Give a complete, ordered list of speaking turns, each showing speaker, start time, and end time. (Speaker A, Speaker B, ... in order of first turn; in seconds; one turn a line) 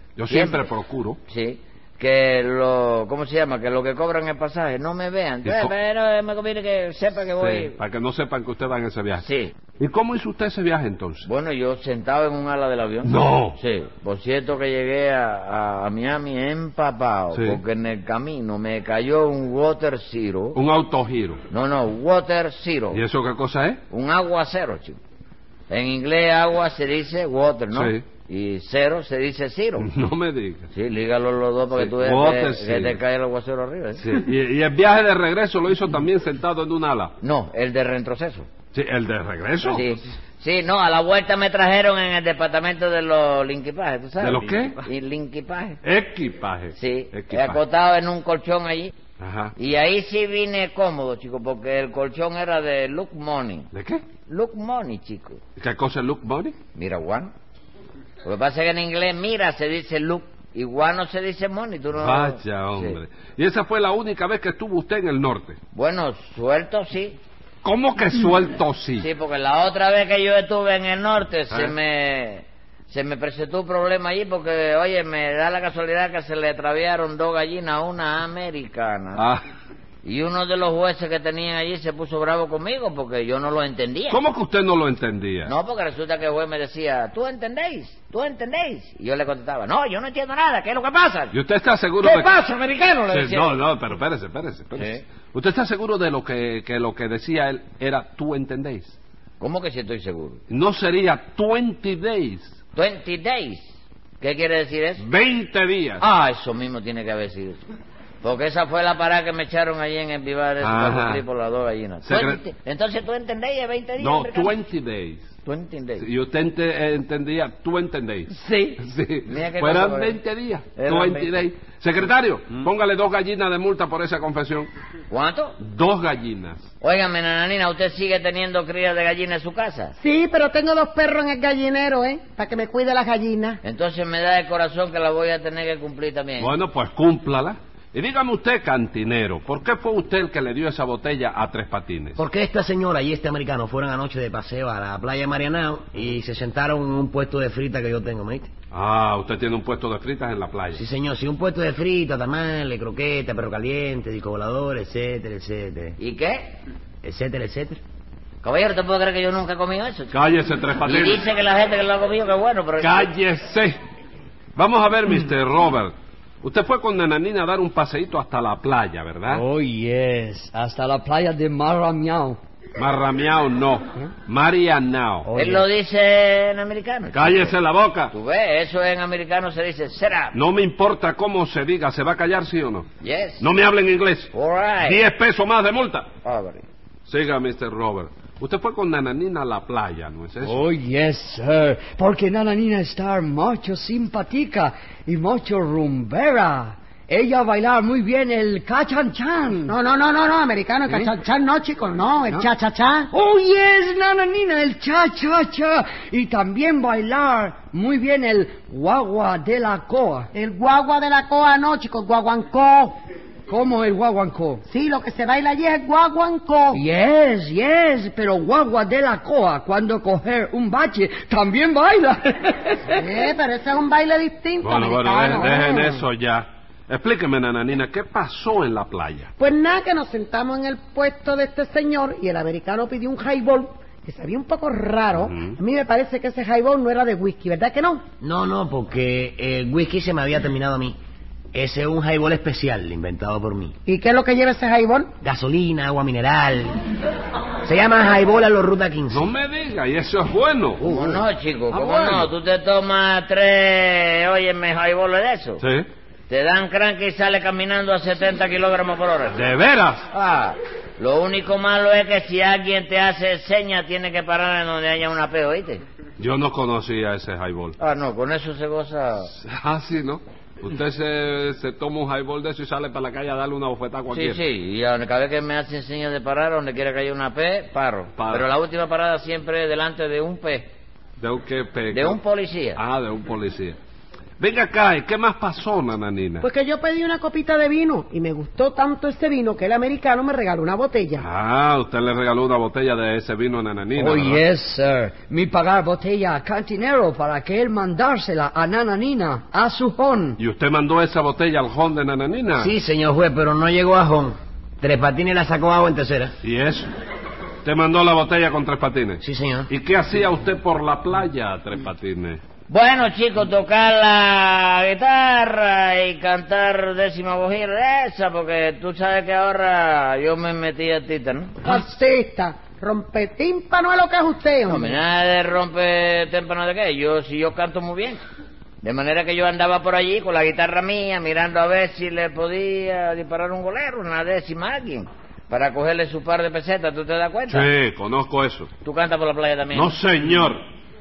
Speaker A: 0.2-1.2
Speaker B: 0.3-0.7
Speaker B: 1.3-7.8
Speaker A: 5.5-5.7
Speaker A: 7.4-9.2
Speaker B: 9.2-9.5
Speaker A: 9.8-11.3
Speaker B: 11.2-20.6
Speaker A: 13.0-13.6
Speaker A: 17.3-17.6
Speaker A: 20.6-21.4
Speaker B: 21.5-23.0
Speaker A: 22.9-23.8
Speaker B: 23.9-25.0
Speaker B: 25.7-29.9
Speaker A: 27.7-28.0
Speaker A: 29.8-30.7
Speaker B: 30.7-34.0
Speaker A: 31.8-33.0
Speaker A: 34.0-37.1
Speaker B: 37.2-38.5
Speaker A: 38.7-39.9
Speaker B: 39.6-45.8
Speaker A: 44.2-44.8
Speaker A: 45.8-47.6
Speaker B: 46.8-48.9
Speaker A: 49.2-49.5
Speaker B: 49.6-53.7
Speaker A: 53.7-54.0
Speaker B: 54.3-55.4
Speaker A: 55.6-56.5
Speaker B: 56.8-57.3
Speaker B: 58.2-63.0
Speaker A: 62.0-65.6
Speaker B: 65.7-67.2
Speaker A: 67.6-69.1
Speaker B: 69.0-79.2
Speaker A: 71.5-71.8
Speaker A: 79.2-79.4
Speaker B: 80.0-84.2
Speaker A: 84.1-85.5
Speaker B: 85.5-91.3
Speaker A: 91.3-92.3
Speaker B: 92.0-93.6
Speaker A: 93.1-99.0
Speaker B: 94.8-95.0
Speaker B: 99.4-100.4
Speaker A: 100.5-102.6
Speaker B: 102.8-105.0
Speaker A: 105.0-106.0
Speaker B: 106.0-107.6
Speaker B: 108.2-114.5
Speaker A: 110.6-111.2
Speaker A: 112.0-112.4
Speaker A: 114.0-115.3
Speaker B: 115.5-116.1
Speaker A: 116.0-124.7
Speaker B: 118.3-120.2
Speaker B: 120.8-121.5
Speaker B: 125.1-125.6
Speaker A: 125.6-126.7
Speaker B: 126.8-129.9
Speaker C: 130.0-133.6
Speaker B: 133.6-136.6
Speaker A: 136.4-142.2
Speaker D: 142.2-148.5
Speaker A: 148.7-150.8
Speaker D: 150.7-156.0
Speaker B: 156.0-156.5
Speaker D: 157.0-157.8
Speaker B: 158.4-160.1
Speaker A: 160.1-161.2
Speaker B: 160.8-163.1
Speaker A: 162.8-163.8
Speaker A: 164.6-169.4
Speaker E: 169.3-172.4
Speaker A: 172.8-175.3
Speaker E: 175.2-175.7
Speaker B: 175.3-177.6
Speaker A: 177.1-178.1
Speaker B: 178.1-180.3
Speaker A: 180.3-182.9
Speaker B: 183.0-183.4
Speaker A: 183.4-186.1
Speaker B: 184.3-185.0
Speaker B: 186.2-186.6
Speaker A: 187.1-190.6
Speaker E: 190.4-199.8
Speaker C: 199.6-203.1
Speaker E: 203.1-210.3
Speaker C: 210.3-212.9
Speaker E: 213.5-214.6
Speaker C: 214.7-216.8
Speaker E: 216.7-223.2
Speaker C: 222.9-226.0
Speaker A: 224.6-229.3
Speaker C: 229.4-238.0
Speaker A: 235.1-235.6
Speaker D: 238.2-241.0
Speaker D: 241.5-243.8
Speaker C: 243.9-245.1
Speaker D: 245.2-246.8
Speaker D: 247.6-249.2
Speaker A: 249.1-250.9
Speaker B: 250.8-255.6
Speaker D: 250.9-251.2
Speaker A: 251.7-252.3
Speaker A: 255.6-255.9
Speaker B: 256.3-259.4
Speaker A: 259.3-260.1
Speaker B: 260.1-265.8
Speaker A: 266.2-267.8
Speaker B: 267.8-269.3
Speaker A: 269.3-274.4
Speaker B: 274.1-280.7
Speaker A: 278.2-278.5
Speaker A: 281.2-282.2
Speaker B: 281.9-282.8
Speaker A: 282.8-283.8
Speaker A: 284.4-286.5
Speaker C: 286.4-291.2
Speaker A: 291.2-294.4
Speaker E: 294.0-300.4
Speaker A: 300.4-302.7
Speaker D: 302.6-306.3
Speaker A: 306.4-306.9
Speaker A: 307.6-312.4
Speaker D: 309.2-309.7
Speaker B: 312.7-321.8
Speaker C: 321.6-325.0
Speaker B: 324.7-328.2
Speaker B: 328.8-337.7
Speaker A: 337.5-338.7
Speaker B: 338.8-340.0
Speaker A: 339.7-340.6